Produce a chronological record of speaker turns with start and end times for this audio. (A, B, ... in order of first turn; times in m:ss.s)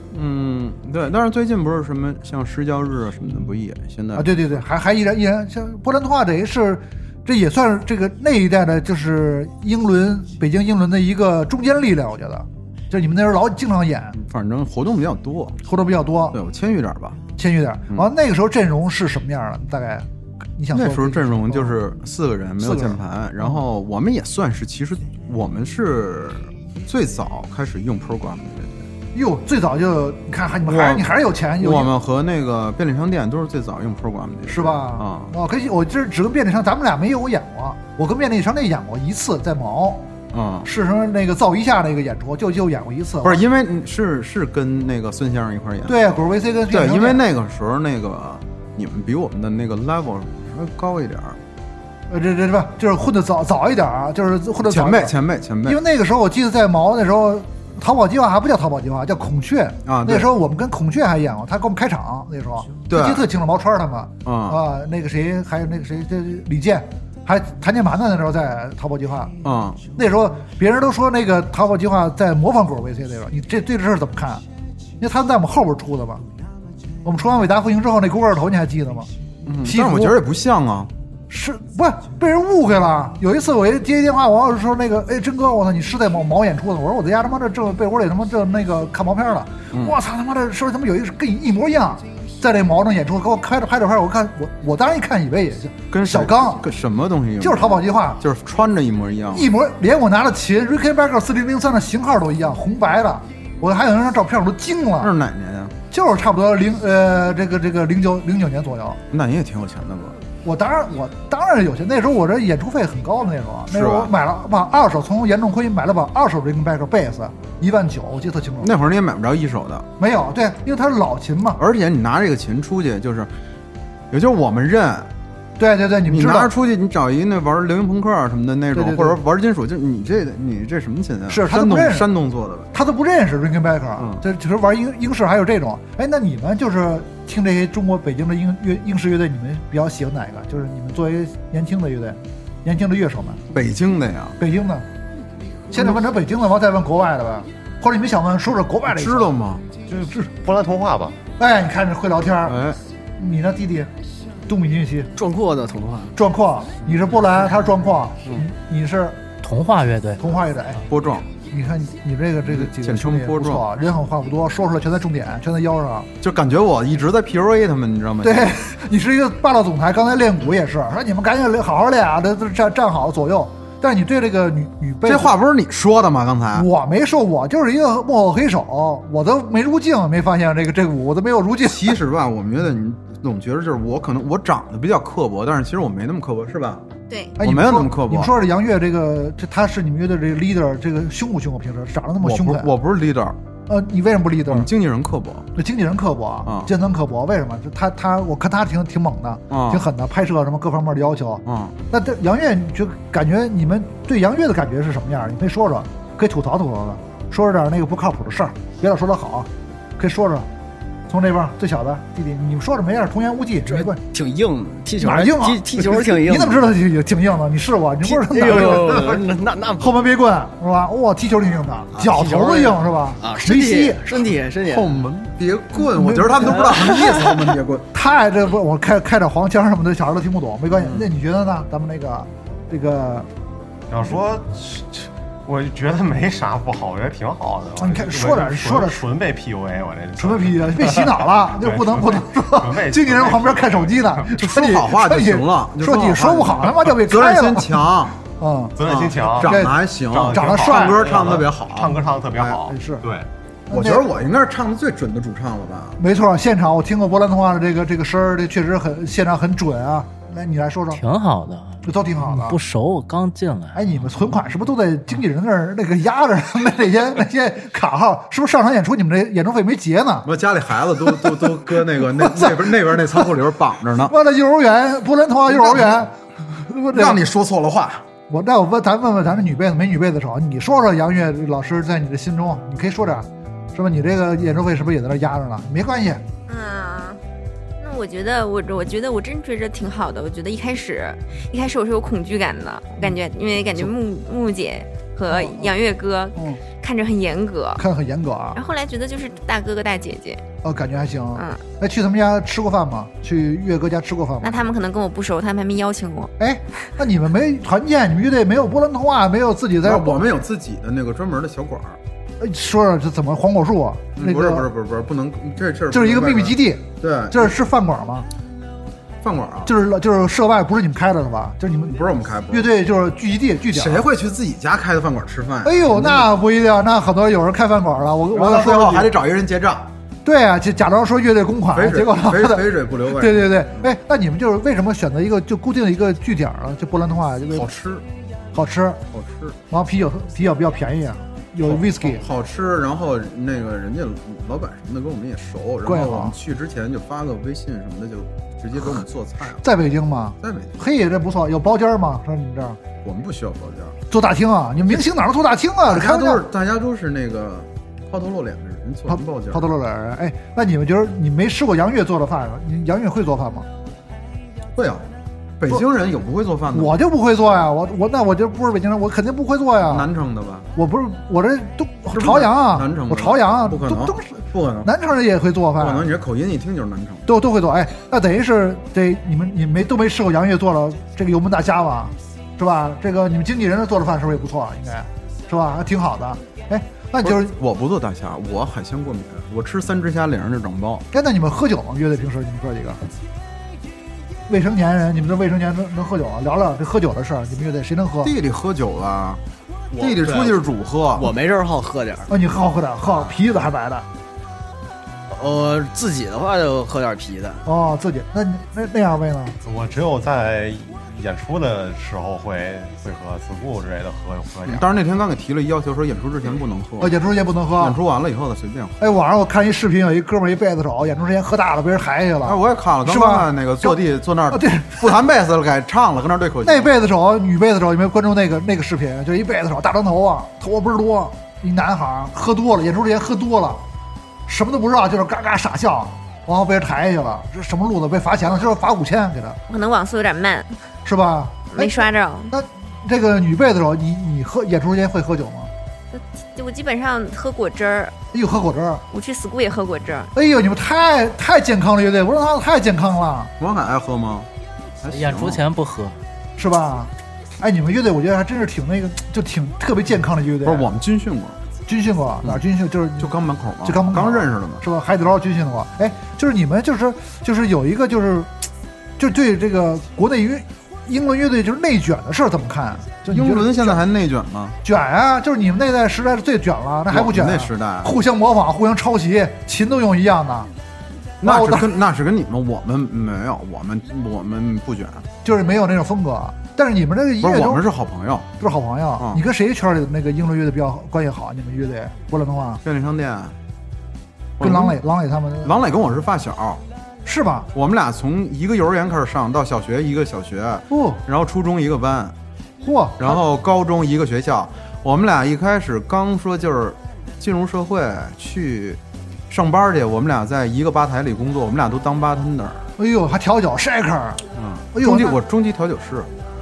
0:00.1-0:04.6 A
0:04.1-0:14.2 B
0:14.1-0:15.6 A
0:15.6-0:16.4 B
0:16.3-0:17.2 A
0:17.4-0:21.8 B
0:20.7-0:28.9 A
0:22.6-0:23.6 B
0:29.1-0:31.9 B
0:30.6-0:35.3 A
0:34.4-0:40.1 B
0:40.3-0:40.7 A
0:40.6-0:43.4 B
0:43.2-0:46.2 A
0:45.8-0:47.2 B
0:46.7-0:51.4 A
0:52.1-0:55.1 B
0:54.6-0:55.8 A
0:55.6-1:09.3 B
0:59.8-1:00.3 A
1:02.9-1:03.2 A
1:04.2-1:04.6 A
1:09.4-1:09.8 A
1:10.0-1:14.4 B
1:15.0-1:16.2 B
1:17.0-1:19.1 B
1:19.4-1:20.9 A
1:19.6-1:20.2 B
1:21.3-1:36.6 B
1:35.9-1:39.5 A
1:37.4-1:38.2 B
1:39.3-1:45.1 B
1:45.0-1:45.7 A
1:45.9-1:49.0 B
1:49.1-1:50.2 A
1:50.4-1:58.7 B
1:53.7-1:54.1 A
1:58.6-1:59.9 A
2:00.0-2:01.6 B
2:01.6-2:03.3 A
2:04.1-2:05.1 A
2:05.6-2:06.5 B
2:06.0-2:12.7 A
2:08.7-2:09.2 B
2:11.3-2:12.1 B
2:12.7-2:23.4 B
2:14.0-2:14.2 A
2:23.5-2:24.4 A
2:24.4-2:24.8 B
2:25.7-2:29.3 B
2:28.8-2:29.6 A
2:29.9-2:30.3 B
2:30.3-2:31.2 C
2:31.4-2:32.6 B
2:32.4-2:32.8 A
2:33.2-2:33.9 B
2:34.5-2:35.1 B
2:35.2-2:36.1 D
2:36.1-2:39.2 B
2:39.4-2:40.3 E
2:40.2-2:40.8 B
2:40.8-2:41.3 A
2:41.5-2:46.1 B
2:42.4-2:43.6 A
2:46.2-2:48.6 A
2:48.2-2:55.3 B
2:55.0-2:56.7 A
2:56.5-3:02.0 B
3:01.6-3:06.8 A
3:07.1-3:07.3 F
3:07.4-3:08.3 A
3:07.4-3:12.7 B
3:12.2-3:13.4 A
3:13.7-3:14.7 B
3:14.4-3:15.5 A
3:15.5-3:30.5 B
3:16.4-3:16.7 A
3:19.5-3:19.9 A
3:21.4-3:21.7 A
3:31.1-3:34.0 B
3:33.6-3:36.7 D
3:35.0-3:39.2 B
3:38.0-3:40.0 D
3:39.8-3:44.1 B
3:41.9-3:44.9 D
3:44.6-3:47.9 A
3:45.8-3:47.4 B
3:47.9-3:53.3 B
3:50.7-3:51.1 A
3:53.9-4:04.2 C
3:57.8-3:59.0 B
4:00.2-4:08.7 B
4:04.3-4:08.2 A
4:08.8-4:13.3 C
4:08.8-4:12.6 A
4:09.4-4:11.1 B
4:12.7-4:13.0 B
4:13.7-4:14.0 B
4:13.7-4:16.0 A
4:16.0-4:21.0 B
4:20.9-4:24.3 E
4:21.8-4:22.6 B
4:23.7-4:30.3 B
4:30.2-4:34.2 A
4:31.0-4:33.3 B
4:34.0-4:37.2 B
4:35.4-4:36.0 A
4:36.9-4:38.0 A
4:38.3-4:46.2 B
4:46.5-4:47.2 F
4:47.8-4:57.8 F
4:55.3-4:55.7 B
4:56.3-4:56.6 B
4:57.8-4:58.6 B
4:58.5-5:00.4 F
5:00.6-5:04.7 B
5:01.4-5:01.6 F
5:04.4-5:06.3 F
5:06.4-5:10.2 B
5:09.8-5:12.0 A
5:12.4-5:14.7 B
5:14.2-5:17.6 A
5:15.9-5:18.3 B
5:19.2-5:19.7 A
5:19.6-5:22.0 B
5:21.9-5:22.7 A
5:22.5-5:24.1 B
5:23.7-5:26.3 A
5:25.6-5:29.1 B
5:28.3-5:29.9 A
5:30.2-5:37.7 B
5:31.7-5:33.9 A
5:37.5-5:38.1 A
5:38.5-5:39.0 B
5:39.1-5:39.6 A
5:39.7-5:42.2 B
5:41.6-5:49.6 A
5:45.8-5:46.4 B
5:49.5-5:52.8 B
5:50.4-5:50.8 A
5:53.0-5:54.0 A
5:54.1-5:56.4 B
5:55.8-5:59.7 A
5:59.1-6:03.7 B
6:04.7-6:07.0 A
6:06.7-6:10.1 B
6:09.9-6:10.7 A
6:10.7-6:16.1 B
6:12.1-6:14.9 A
6:15.8-6:17.3 A
6:17.2-6:27.5 B
6:27.2-6:31.0 A
6:31.1-6:33.0 B
6:34.5-6:38.3 B
6:38.2-6:39.4 A
6:39.9-6:40.6 D
6:40.0-6:41.3 A
6:41.2-6:42.3 D
6:42.3-6:44.0 B
6:45.3-6:47.6 D
6:47.6-6:49.6 B
6:49.6-6:54.9 C
6:54.6-6:57.2 A
6:57.0-6:58.0 B
6:57.8-6:59.1 A
6:59.0-7:04.0 B
7:02.4-7:06.9 A
7:04.5-7:05.0 B
7:06.6-7:13.8 B
7:14.5-7:19.6 B
7:19.7-7:20.7 F
7:21.0-7:25.7 B
7:21.7-7:22.5 F
7:26.1-7:28.1 F
7:28.3-7:29.0 B
7:29.1-7:30.3 F
7:30.3-7:33.5 B
7:33.6-7:34.5 A
7:35.0-7:35.6 A
7:35.1-7:36.2 E
7:36.6-7:40.9 B
7:40.6-7:41.6 A
7:41.9-7:48.5 B
7:43.2-7:44.8 A
7:49.2-7:54.0 B
7:53.3-7:54.8 A
7:54.8-8:00.7 B
7:57.1-7:58.2 A
8:01.4-8:05.3 A
8:01.4-8:01.9 B
8:05.4-8:07.8 B
8:07.4-8:08.5 A
8:08.6-8:12.8 B
8:09.2-8:09.4 A
8:12.8-8:13.6 A
8:14.6-8:15.0 A
8:14.6-8:15.8 B
8:15.6-8:16.8 A
8:17.2-8:17.7 B
8:17.7-8:22.4 A
8:20.9-8:21.2 B
8:22.8-8:23.4 B
8:23.2-8:32.9 A
8:33.0-8:35.4 B
8:34.6-8:36.3 A